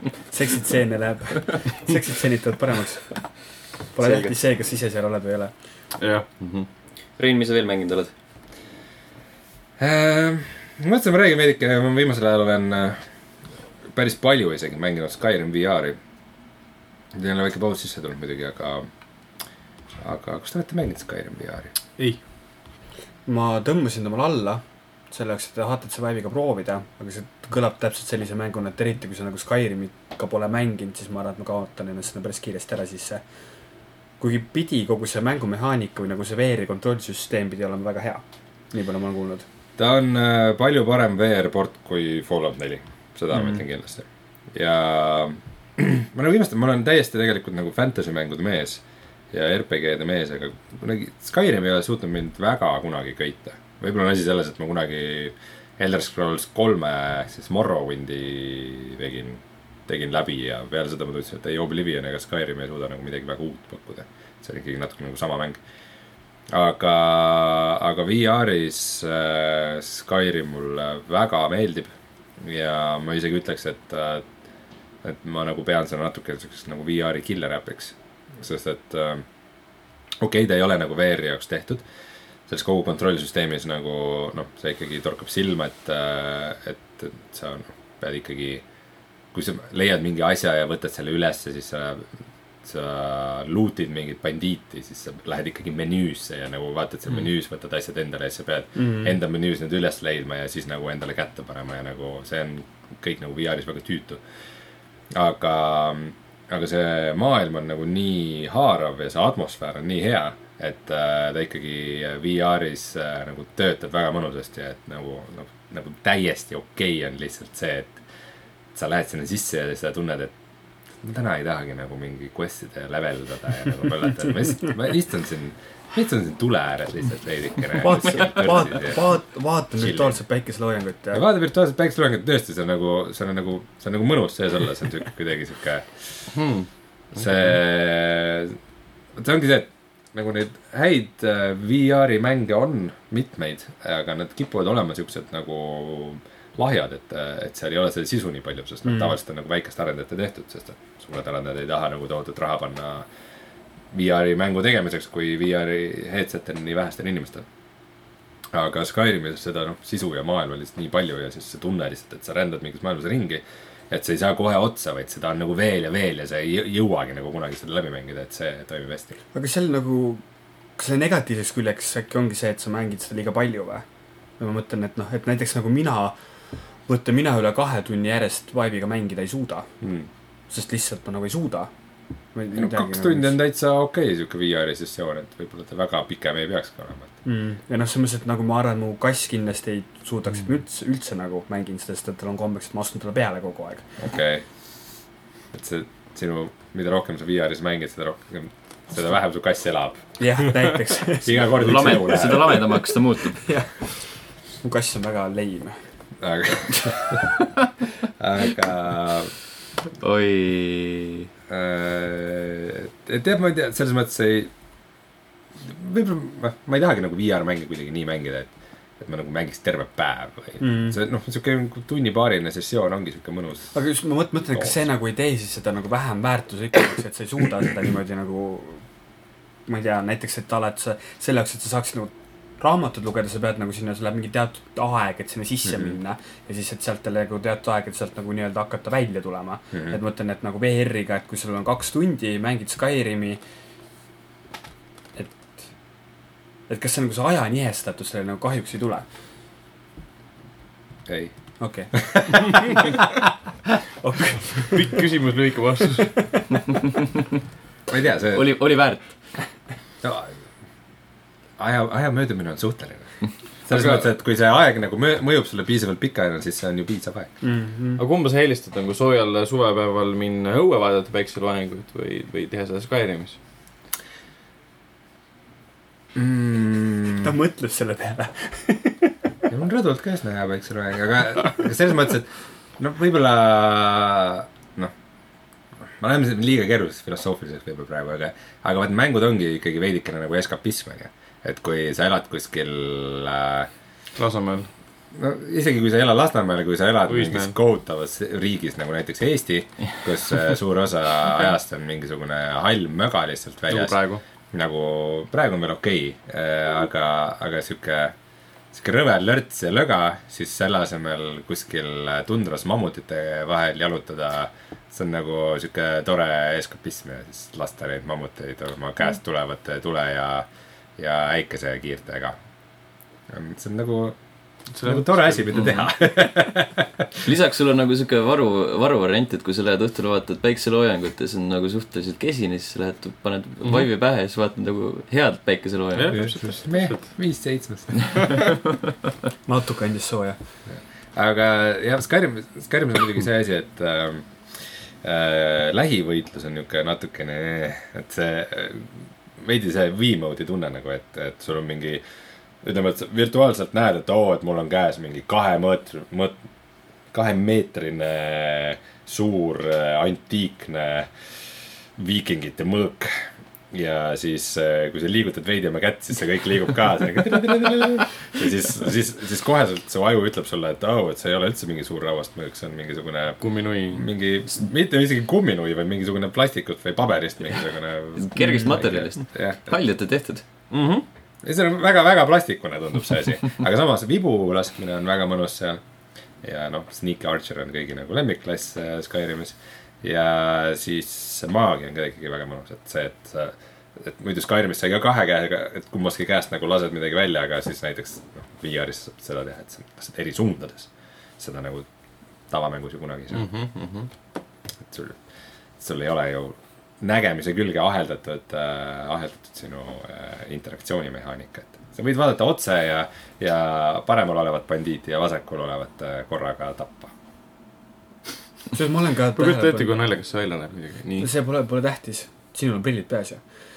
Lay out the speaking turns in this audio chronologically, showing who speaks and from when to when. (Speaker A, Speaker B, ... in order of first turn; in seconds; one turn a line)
Speaker A: 0.3-3.3
Speaker A: 3.9-5.5
Speaker B: 4.0-4.3
Speaker C: 6.0-6.3
Speaker B: 7.2-8.1
Speaker D: 9.8-13.0
Speaker D: 13.9-16.0
Speaker D: 17.1-18.9
Speaker D: 20.0-21.7
Speaker A: 23.3-33.2
Speaker A: 34.2-39.5
Speaker D: 39.8-65.6
Speaker D: 66.5-74.3
Speaker D: 75.0-79.2
Speaker D: 80.2-81.8
Speaker D: 82.5-88.6
Speaker D: 89.3-104.2
Speaker A: 98.8-99.2
Speaker D: 105.1-118.0
Speaker D: 118.8-120.3
Speaker D: 121.0-129.0
Speaker A: 127.8-131.2
Speaker D: 129.8-130.2
Speaker D: 131.1-136.3
Speaker C: 136.3-137.3
Speaker D: 137.1-138.6
Speaker D: 139.2-153.1
Speaker A: 148.9-149.1
Speaker D: 153.9-157.5
Speaker D: 158.5-169.2
Speaker A: 169.3-170.2
Speaker A: 170.8-173.8
Speaker A: 174.4-176.2
Speaker A: 176.9-179.7
Speaker D: 179.8-180.1
Speaker A: 180.5-181.7
Speaker A: 182.3-183.3
Speaker D: 182.5-187.1
Speaker A: 187.2-193.9
Speaker D: 194.0-194.4
Speaker D: 195.5-200.0
Speaker A: 200.2-202.7
Speaker D: 201.2-202.7
Speaker B: 201.6-203.4
Speaker A: 203.4-203.9
Speaker A: 204.6-205.8
Speaker D: 206.2-207.3
Speaker D: 208.2-209.3
Speaker B: 210.0-211.3
Speaker D: 211.5-214.5
Speaker D: 215.6-223.7
Speaker A: 220.6-221.0
Speaker A: 223.7-228.8
Speaker D: 224.5-224.8
Speaker A: 229.7-243.4
Speaker D: 235.7-236.0
Speaker A: 245.2-245.7
Speaker A: 246.7-249.1
Speaker D: 251.1-251.3
Speaker A: 251.6-253.0
Speaker D: 251.9-253.1
Speaker A: 254.0-255.0
Speaker C: 254.7-256.4
Speaker D: 257.9-258.5
Speaker B: 258.3-259.1
Speaker D: 260.0-260.3
Speaker D: 261.6-263.1
Speaker D: 263.7-267.3
Speaker C: 263.7-264.0
Speaker A: 267.4-268.0
Speaker C: 268.0-273.4
Speaker D: 276.1-277.3
Speaker A: 277.2-279.2
Speaker D: 279.5-284.9
Speaker D: 286.0-293.7
Speaker C: 294.2-294.7
Speaker D: 295.1-304.0
Speaker C: 297.1-297.5
Speaker C: 303.7-304.2
Speaker D: 304.5-308.1
Speaker D: 308.7-322.4
Speaker D: 323.3-324.2
Speaker C: 324.7-325.8
Speaker D: 324.8-327.2
Speaker B: 327.2-336.2
Speaker C: 336.0-337.1
Speaker D: 336.1-338.2
Speaker A: 339.5-340.4
Speaker D: 340.7-352.0
Speaker D: 352.6-356.4
Speaker D: 357.1-361.4
Speaker D: 362.0-379.7
Speaker C: 373.4-374.1
Speaker B: 378.2-380.4
Speaker A: 378.4-378.7
Speaker C: 380.7-381.1
Speaker D: 381.4-385.8
Speaker D: 386.4-401.9
Speaker D: 402.5-403.5
Speaker C: 403.3-404.1
Speaker D: 404.9-405.2
Speaker D: 405.8-417.1
Speaker A: 418.7-419.9
Speaker C: 419.4-421.3
Speaker A: 421.2-423.4